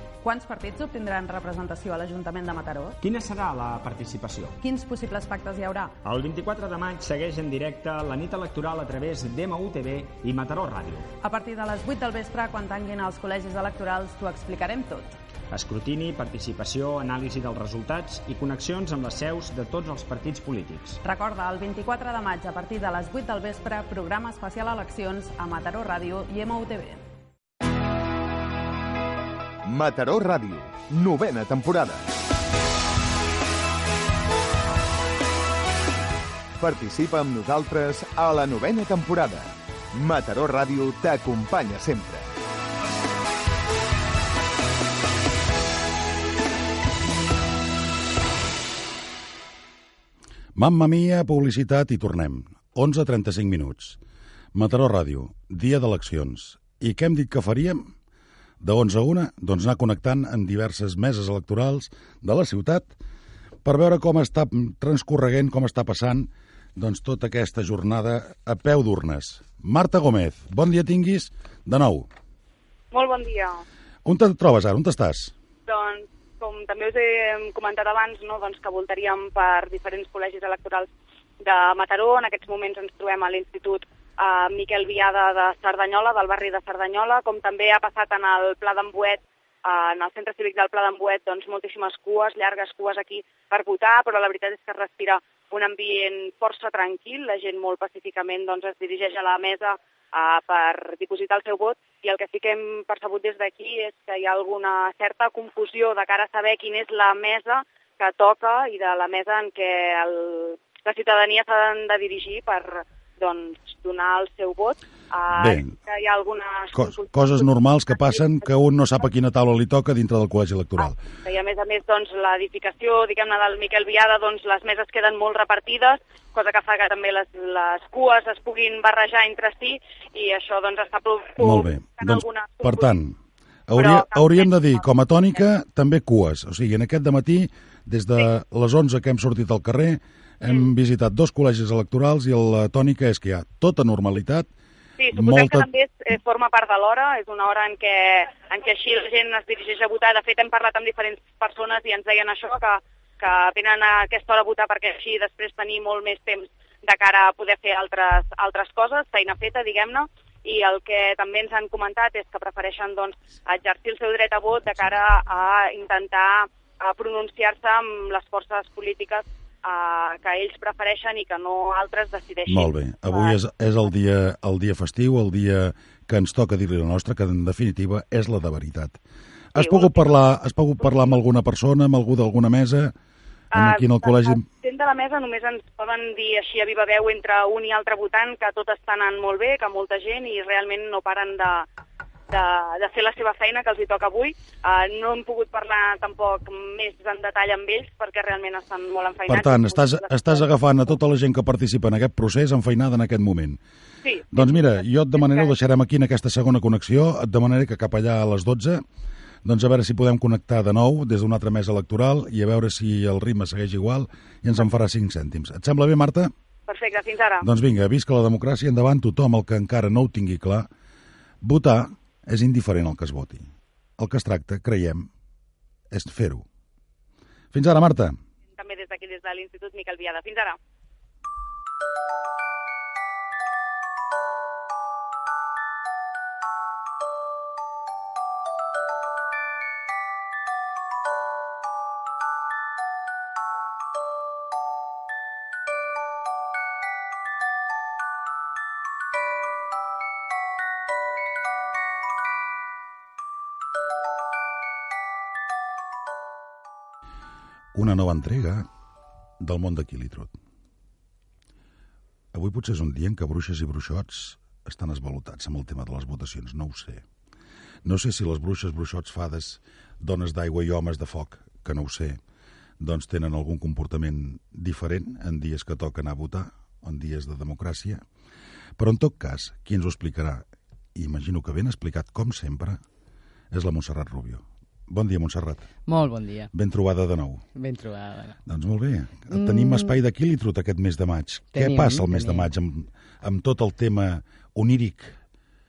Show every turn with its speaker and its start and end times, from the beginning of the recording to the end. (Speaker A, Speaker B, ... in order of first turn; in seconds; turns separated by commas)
Speaker A: 0.2-3.0, Speaker B: 3.0-4.6, Speaker A: 4.6-6.0, Speaker B: 6.0-11.1, Speaker A: 11.2-15.2, Speaker B: 15.5-21.0, Speaker A: 21.0-27.0, Speaker C: 29.6-32.0, Speaker C: 36.6-42.2, Speaker D: 50.6-54.0, Speaker D: 54.5-57.9, Speaker D: 58.6-62.9, Speaker D: 63.6-72.1, Speaker E: 72.9-73.6, Speaker D: 74.0-75.3, Speaker E: 75.7-80.9, Speaker E: 81.4-118.2, Speaker D: 115.3-115.8, Speaker D: 116.7-121.0, Speaker E: 120.8-133.0, Speaker D: 131.4-133.2, Speaker D: 133.7-144.5, Speaker E: 133.8-134.8, Speaker E: 145.0-173.3, Speaker D: 145.1-145.7, Speaker D: 172.5-179.0, Speaker D: 179.5-182.9, Speaker E: 179.6-180.1, Speaker E: 180.8-181.2, Speaker D: 183.5-184.5, Speaker E: 183.5-191.7, Speaker E: 192.3-200.5, Speaker D: 199.3-203.6, Speaker E: 204.0-205.5, Speaker D: 204.3-208.8, Speaker D: 209.4-216.3, Speaker E: 216.7-217.4, Speaker D: 217.4-220.7, Speaker D: 221.4-225.1, Speaker D: 225.9-226.4, Speaker D: 227.5-228.2, Speaker E: 228.5-230.6, Speaker D: 257.7-258.7, Speaker D: 259.4-260.4, Speaker D: 262.3-267.0, Speaker D: 267.9-272.2, Speaker D: 272.8-278.0, Speaker D: 278.8-282.8, Speaker D: 283.5-285.7, Speaker F: 285.9-286.5, Speaker D: 286.5-287.4, Speaker F: 287.6-288.4, Speaker D: 288.5-295.2, Speaker F: 289.3-290.0, Speaker F: 291.5-292.5